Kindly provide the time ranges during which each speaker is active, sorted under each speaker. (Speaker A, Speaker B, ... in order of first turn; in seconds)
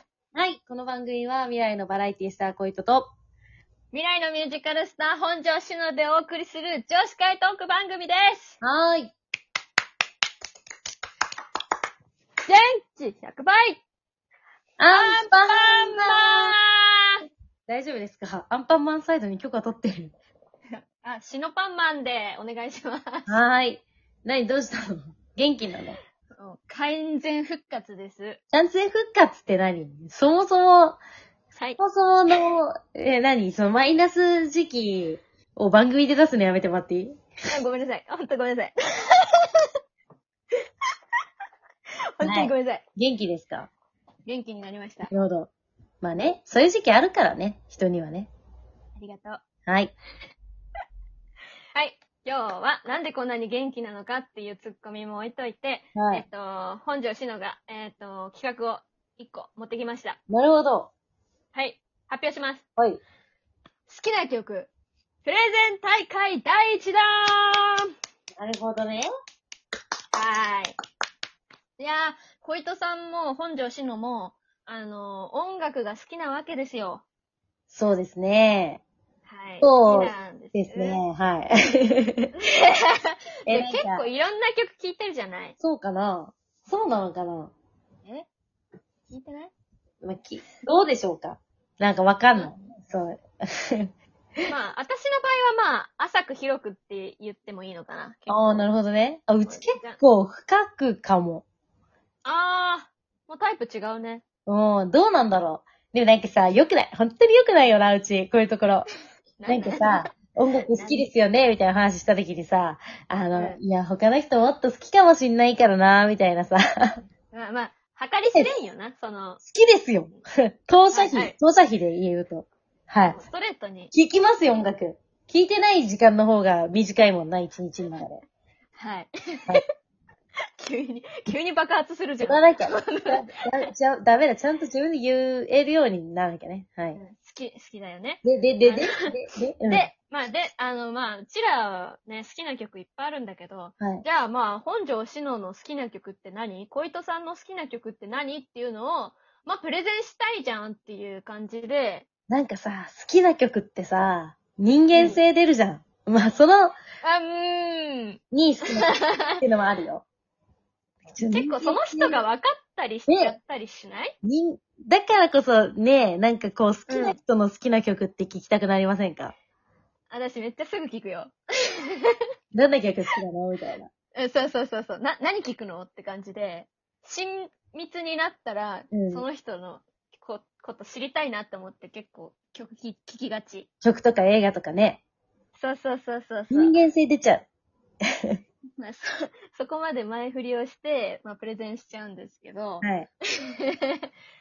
Speaker A: 0.3-3.1, 8.6-9.1, 14.8-16.5, 17.7-20.1, 23.3-26.0, 28.5-31.0, 31.8-37.2, 42.2-43.7, 45.1-45.5, 46.0-48.3, 49.7-49.9, 55.9-56.2, 60.3-60.9, 68.4-69.1, 77.7-78.8, 79.6-82.3, 83.5-84.0, 85.6-87.5, 90.0-93.9, 98.3-101.4, 104.5-108.9, 109.5-117.0, 119.4-123.2, 123.9-128.2, 132.2-137.0, 138.2-139.9, 152.3-156.8, 158.3-160.0, 161.1-162.2, 163.1-163.3, 164.2-169.3, 172.5-173.9, 178.9-179.2, 183.8-185.0, 186.5-187.5, 192.8-193.1
Speaker B: 3.9-8.6, 12.5-13.8, 14.9-17.1, 20.7-23.4, 26.4-28.4, 31.5-31.8, 37.5-39.6, 42.2-42.8, 44.2-45.1, 49.0-49.4, 51.7-60.2, 61.5-62.6, 63.9-64.7, 65.2-67.8, 70.1-70.7, 71.8-77.0, 79.2-81.0, 82.4-85.5, 89.1-89.5, 94.5-98.7, 99.4-100.0, 102.2-104.2, 109.4-110.0, 110.7-111.1, 113.3-113.6, 117.3-119.4, 120.9-121.3, 123.1-123.9, 128.8-129.6, 130.6-133.7, 136.9-139.1, 139.7-152.1, 154.9-155.2, 157.0-159.4, 161.3-164.1, 166.9-167.2, 170.1-172.2, 174.1-183.7, 185.6-186.7, 188.8-192.8, 193.6-194.1